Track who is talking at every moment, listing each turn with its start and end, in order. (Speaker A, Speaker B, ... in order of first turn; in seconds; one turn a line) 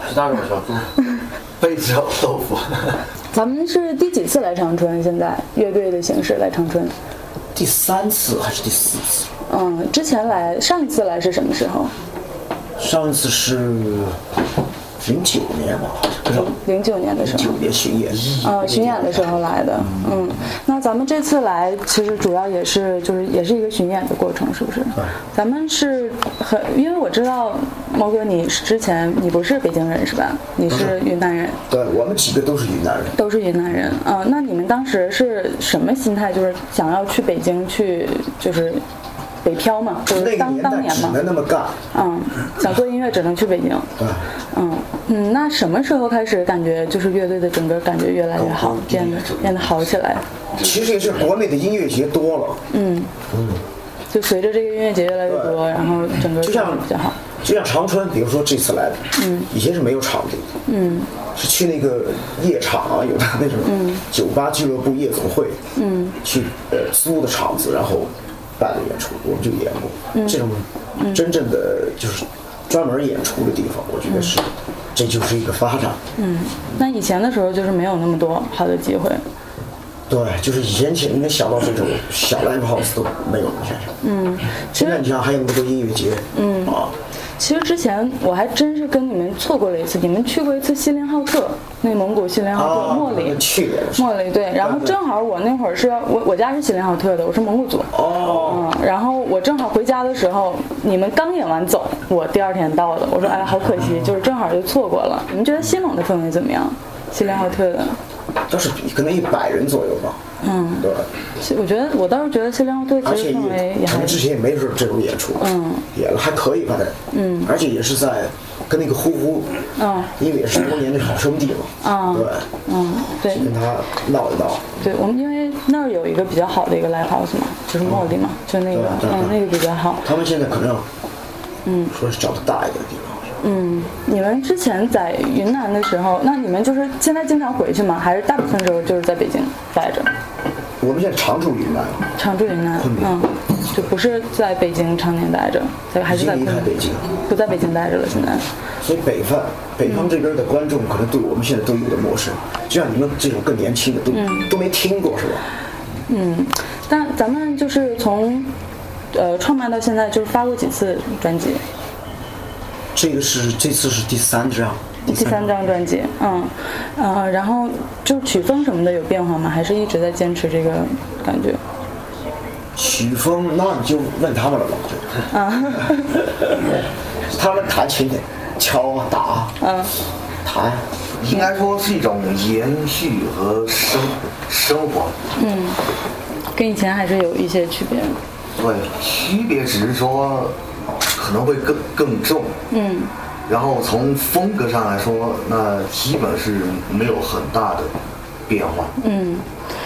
Speaker A: 1.6-3.0
Speaker B: 3.3-6.9
Speaker C: 7.5-9.3
Speaker B: 9.5-11.9
Speaker C: 12.8-14.2
Speaker C: 15.0-16.5
Speaker B: 16.2-17.6
Speaker C: 17.2-20.3
Speaker B: 18.4-31.6
Speaker C: 30.7-31.0
Speaker C: 31.7-33.2
Speaker B: 33.1-38.8
Speaker B: 39.4-41.2
Speaker C: 40.1-41.8
Speaker B: 41.9-50.2
Speaker C: 44.0-44.3
Speaker C: 48.3-49.8
Speaker C: 50.6-52.6
Speaker B: 52.7-53.1
Speaker C: 53.3-53.6
Speaker B: 54.1-57.2
Speaker C: 55.2-55.7
Speaker C: 56.4-60.6
Speaker B: 59.2-59.5
Speaker B: 60.7-61.1
Speaker C: 61.3-65.6
Speaker B: 63.6-64.0
Speaker B: 65.7-66.2
Speaker C: 66.2-76.0
Speaker B: 70.1-70.4
Speaker B: 71.0-71.2
Speaker B: 74.1-74.3
Speaker B: 76.2-79.2
Speaker C: 80.1-83.9
Speaker B: 84.0-85.1
Speaker C: 84.7-86.9
Speaker B: 86.3-86.8
Speaker B: 87.4-108.0
Speaker C: 92.5-95.0
Speaker C: 97.9-98.7
Speaker C: 108.5-110.2
Speaker B: 110.4-114.2
Speaker C: 110.8-111.1
Speaker C: 113.0-119.6
Speaker B: 115.4-115.8
Speaker B: 117.1-117.5
Speaker B: 119.8-120.1
Speaker C: 120.2-122.5
Speaker B: 121.8-123.5
Speaker C: 123.2-124.8
Speaker B: 124.8-130.1
Speaker C: 127.8-128.1
Speaker C: 128.7-129.4
Speaker C: 130.0-130.9
Speaker B: 131.7-131.9
Speaker C: 131.9-133.3
Speaker B: 133.4-140.1
Speaker C: 140.8-142.1
Speaker B: 142.2-148.4
Speaker C: 142.8-143.2
Speaker C: 146.1-147.1
Speaker C: 148.8-155.4
Speaker B: 149.8-150.1
Speaker B: 154.1-154.5
Speaker B: 156.1-158.5
Speaker B: 159.1-161.6
Speaker C: 162.9-165.5
Speaker B: 165.1-171.6
Speaker C: 172.8-175.8
Speaker B: 175.3-176.2
Speaker C: 177.2-179.6
Speaker B: 179.6-179.9
Speaker C: 180.4-180.8
Speaker A: 181.2-185.2
Speaker B: 185.3-185.8
Speaker B: 186.5-188.2
Speaker A: 188.5-190.6
Speaker A: 191.1-192.6
Speaker B: 192.7-193.1
Speaker A: 193.5-197.9
Speaker A: 198.5-198.9
Speaker B: 199.0-199.5